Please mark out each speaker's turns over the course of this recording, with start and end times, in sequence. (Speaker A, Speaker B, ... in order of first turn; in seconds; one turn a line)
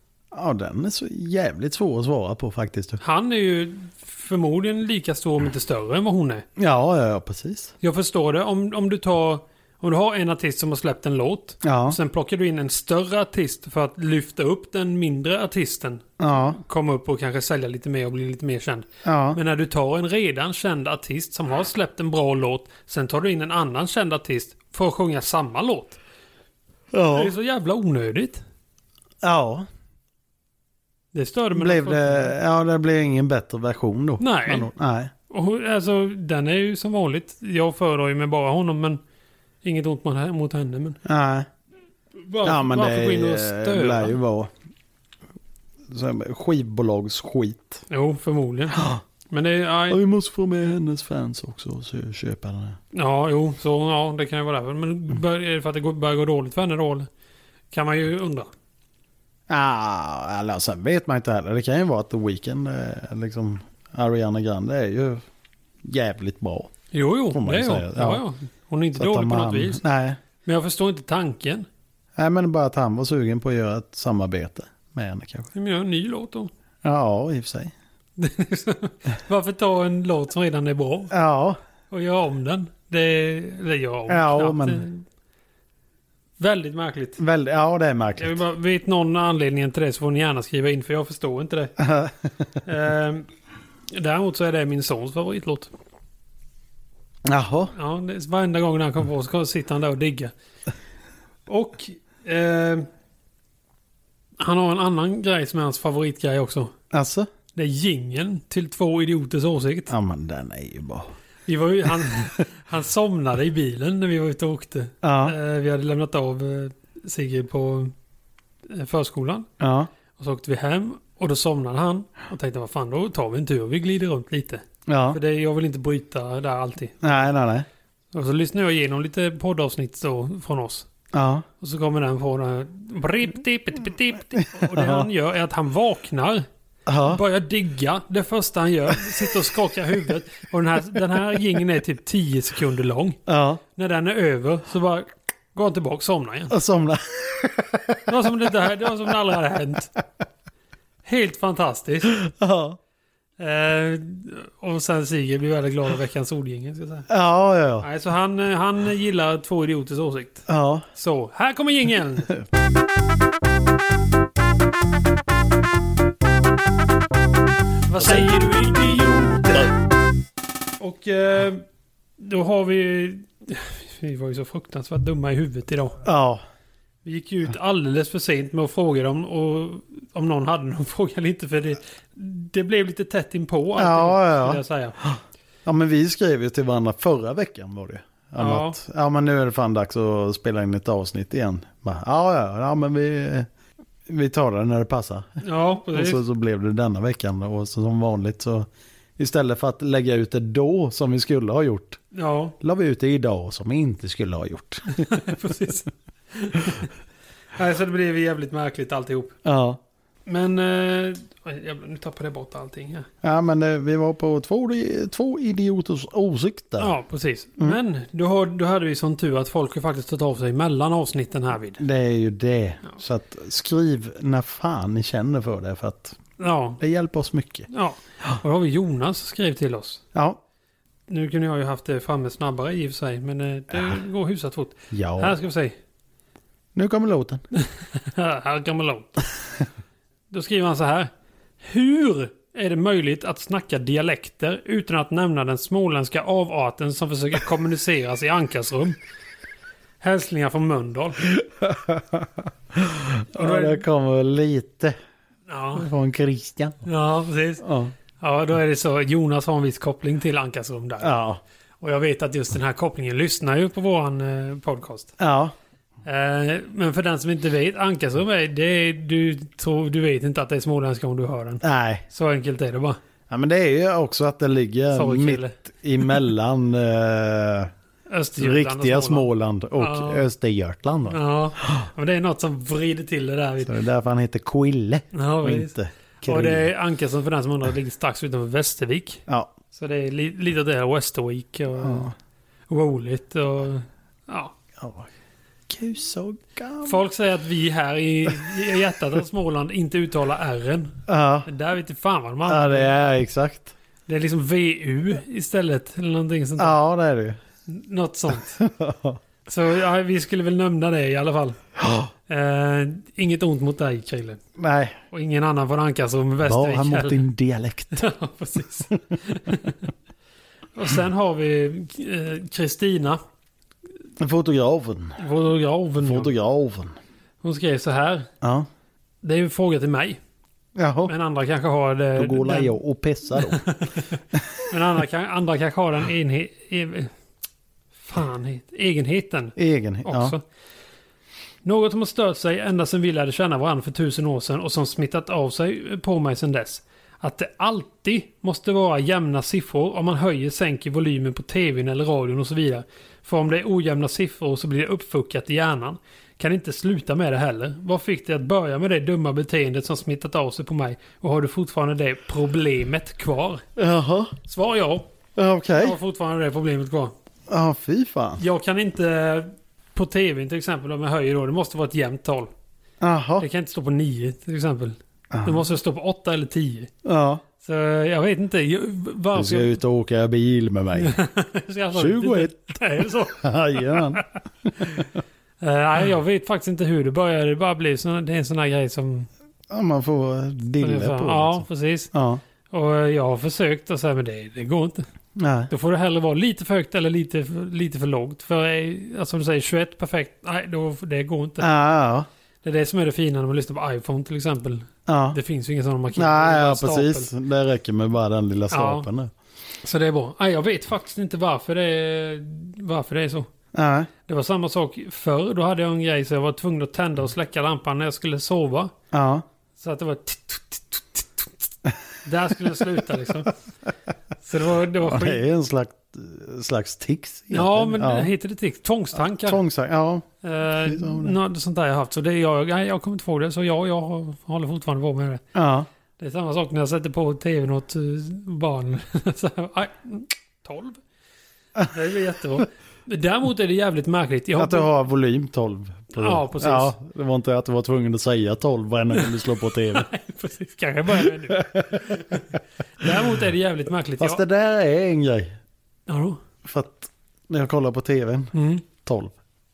Speaker A: 0.3-3.0
Speaker B: 3.0-6.5
Speaker A: 6.6-7.7
Speaker B: 7.8-26.0
Speaker A: 11.6-12.0
Speaker A: 16.2-16.6
Speaker A: 19.0-19.4
Speaker A: 26.9-27.3
Speaker B: 27.1-28.4
Speaker A: 29.2-29.7
Speaker B: 31.1-32.3
Speaker A: 31.5-35.1
Speaker B: 34.2-34.7
Speaker B: 35.3-39.0
Speaker B: 39.6-41.0
Speaker A: 41.0-41.5
Speaker B: 42.2-44.2
Speaker A: 42.4-44.5
Speaker A: 45.9-47.8
Speaker B: 47.9-50.0
Speaker A: 48.7-49.0
Speaker A: 49.9-52.8
Speaker B: 52.9-57.1
Speaker B: 57.7-58.5
Speaker A: 59.5-65.2
Speaker A: 65.8-66.7
Speaker B: 66.9-69.8
Speaker A: 67.3-68.2
Speaker A: 69.0-70.2
Speaker B: 70.4-71.7
Speaker A: 72.2-75.5
Speaker B: 75.5-76.5
Speaker A: 76.8-77.7
Speaker B: 78.2-81.1
Speaker A: 81.1-81.6
Speaker B: 81.9-85.0
Speaker A: 84.1-84.8
Speaker B: 86.4-87.2
Speaker A: 87.2-88.4
Speaker B: 88.2-91.8
Speaker A: 91.8-92.3
Speaker B: 92.7-93.3
Speaker B: 93.9-95.7
Speaker A: 97.3-97.7
Speaker B: 97.7-100.3
Speaker B: 101.5-102.9
Speaker B: 104.4-106.7
Speaker A: 106.9-107.3
Speaker B: 107.5-109.9
Speaker A: 109.9-111.1
Speaker B: 111.5-117.9
Speaker A: 115.0-115.3
Speaker B: 118.7-119.5
Speaker A: 119.6-119.9
Speaker B: 120.2-127.3
Speaker A: 124.9-125.2
Speaker A: 127.0-127.7
Speaker B: 128.1-130.9
Speaker A: 131.1-131.4
Speaker B: 131.6-136.5
Speaker A: 134.6-135.1
Speaker A: 136.9-137.2
Speaker B: 137.1-143.2
Speaker A: 143.3-143.6
Speaker B: 143.8-146.6
Speaker A: 146.5-148.3
Speaker B: 148.1-149.9
Speaker B: 151.1-152.2
Speaker A: 152.1-152.8
Speaker B: 153.4-157.1
Speaker A: 157.1-157.9
Speaker B: 157.8-162.4
Speaker A: 160.5-160.8
Speaker B: 167.9-169.6
Speaker A: 168.0-168.3
Speaker B: 170.8-171.6
Speaker B: 172.2-176.0
Speaker A: 176.0-176.4
Speaker B: 177.1-185.0
Speaker A: 183.8-193.5
Speaker B: 188.4-188.8
Speaker A: 194.1-195.4
Speaker B: 195.4-196.2
Speaker A: 195.9-202.0
Speaker B: 202.1-202.6
Speaker A: 202.6-205.2
Speaker B: 204.9-206.9
Speaker B: 207.6-209.4
Speaker A: 209.4-209.8
Speaker B: 210.3-213.1
Speaker A: 213.2-217.0
Speaker B: 216.8-221.8
Speaker A: 221.8-226.2
Speaker B: 226.4-226.8
Speaker A: 226.8-227.7
Speaker B: 227.7-230.0
Speaker A: 230.1-230.4
Speaker B: 231.1-235.8
Speaker A: 234.9-235.4
Speaker A: 236.8-237.4
Speaker B: 237.6-239.2
Speaker B: 240.3-249.0
Speaker B: 250.0-251.2
Speaker A: 251.3-254.9
Speaker B: 253.3-253.8
Speaker B: 255.5-255.9
Speaker A: 255.7-256.8
Speaker B: 256.8-257.6
Speaker A: 257.6-257.9
Speaker B: 258.2-261.2
Speaker A: 261.0-261.4
Speaker B: 261.8-265.1
Speaker A: 265.2-265.5
Speaker B: 266.0-273.0
Speaker A: 271.6-272.0
Speaker A: 273.3-277.7
Speaker B: 274.9-275.6
Speaker B: 278.1-280.3
Speaker A: 278.4-281.9
Speaker B: 281.1-283.8
Speaker A: 283.6-286.7
Speaker B: 285.1-292.1
Speaker A: 291.8-292.1
Speaker B: 292.7-294.5
Speaker A: 294.8-295.1
Speaker A: 295.7-297.0
Speaker B: 296.8-302.9
Speaker A: 301.1-301.5
Speaker A: 302.5-303.7
Speaker B: 304.1-306.8
Speaker A: 306.6-307.4
Speaker B: 307.7-308.6
Speaker A: 308.6-309.2
Speaker B: 309.5-311.6
Speaker A: 311.8-312.1
Speaker B: 312.3-314.4
Speaker A: 314.6-315.0
Speaker B: 315.1-317.2
Speaker A: 316.4-318.1
Speaker B: 317.9-319.9
Speaker B: 320.8-323.2
Speaker A: 324.2-325.2
Speaker B: 325.2-326.3
Speaker A: 326.0-327.0
Speaker B: 327.4-328.3
Speaker B: 329.2-330.2
Speaker A: 330.8-331.1
Speaker B: 331.1-332.7
Speaker A: 332.2-333.6
Speaker B: 333.5-333.9
Speaker A: 334.4-334.6
Speaker B: 334.7-337.1
Speaker B: 338.0-340.4
Speaker A: 339.6-340.4
Speaker B: 341.6-363.6
Speaker A: 363.8-364.3
Speaker B: 364.4-365.1
Speaker A: 365.4-366.0
Speaker B: 365.8-367.1
Speaker A: 367.5-368.4
Speaker B: 368.4-372.5
Speaker A: 373.0-373.5
Speaker B: 373.4-376.9
Speaker A: 375.3-375.6
Speaker A: 377.0-377.4
Speaker B: 377.6-379.8
Speaker A: 379.3-381.2
Speaker B: 381.0-385.1
Speaker A: 381.9-385.0
Speaker B: 385.6-389.3
Speaker A: 389.7-392.4
Speaker B: 390.8-392.1
Speaker B: 392.7-395.0
Speaker A: 395.4-395.7
Speaker B: 395.7-401.7
Speaker A: 401.6-402.3
Speaker B: 402.6-407.3
Speaker A: 405.1-405.4
Speaker A: 406.1-409.3
Speaker B: 408.7-409.1
Speaker B: 409.8-413.5
Speaker A: 413.7-414.1
Speaker B: 414.3-418.9
Speaker A: 419.1-419.4
Speaker B: 419.8-421.5
Speaker B: 422.2-423.5
Speaker B: 424.4-425.4
Speaker A: 425.0-428.3
Speaker B: 427.5-429.6
Speaker A: 429.2-430.3
Speaker B: 430.4-435.4
Speaker A: 430.8-431.4
Speaker A: 435.6-435.9
Speaker B: 436.2-441.0
Speaker B: 441.9-444.9
Speaker A: 444.6-450.1
Speaker B: 446.1-446.9
Speaker B: 449.1-454.4
Speaker A: 451.1-453.2
Speaker A: 454.2-455.6
Speaker B: 456.1-456.4
Speaker A: 456.6-459.3
Speaker B: 458.5-458.9